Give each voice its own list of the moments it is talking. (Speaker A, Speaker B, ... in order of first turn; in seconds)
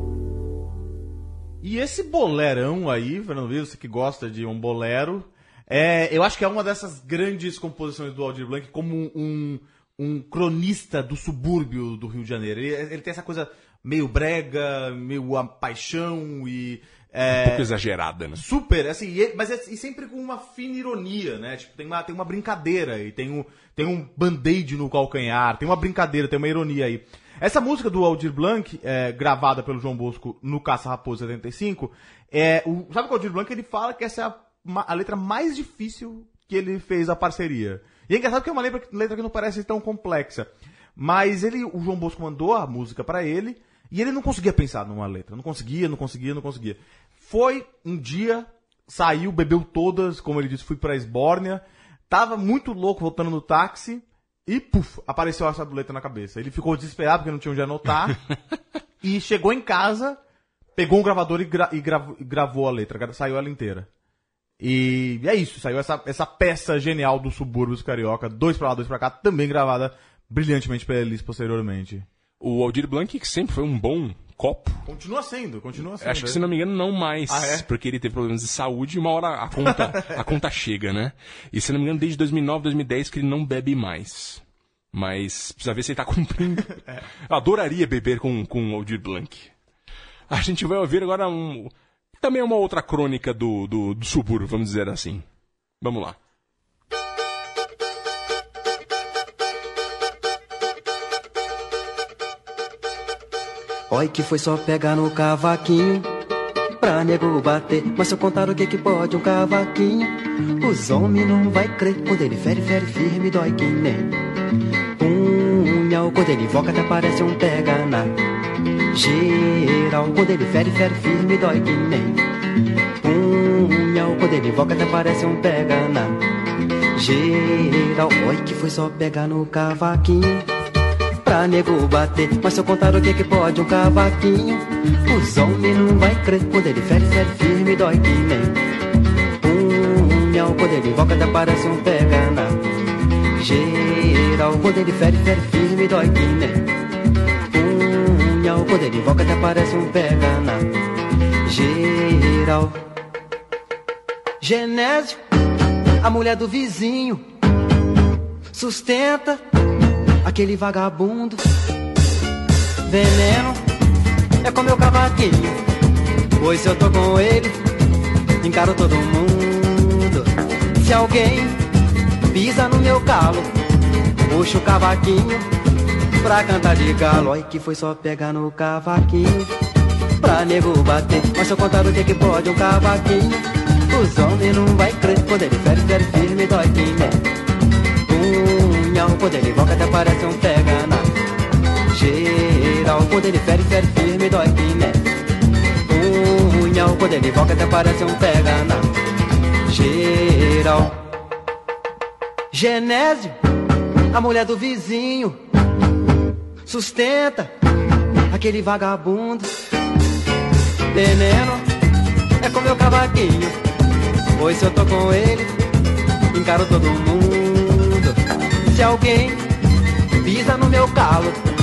Speaker A: 1.6-17.7, 18.4-58.2, 59.0-60.2, 60.8-63.9, 64.6-72.1, 74.9-76.4, 77.3-77.7, 79.7-80.0
Speaker B: 17.3-18.4, 72.4-74.8, 76.0-89.5, 90.3-95.3, 95.8-96.2
Speaker C: 103.9-106.1, 106.8-114.2, 115.0-118.1, 118.9-122.2, 123.0-126.2, 127.0-130.5, 131.2-138.6, 139.4-142.6, 143.4-146.7, 147.5-150.7, 151.4-152.8, 154.4-155.2, 156.0-157.3, 158.5-159.4, 160.2-161.5, 162.9-163.6, 164.4-165.6, 166.4-167.6, 168.4-171.6, 172.3-173.5, 174.3-175.5, 176.2-179.5, 180.2-187.2, 188.1-191.1, 191.9-195.0, 195.9-198.9, 199.7-201.0, 202.5-203.4, 204.1-205.4, 206.7-207.5, 208.3-209.5, 210.9-211.7, 212.4-213.6, 214.4-215.5, 216.3-219.5, 220.2-221.4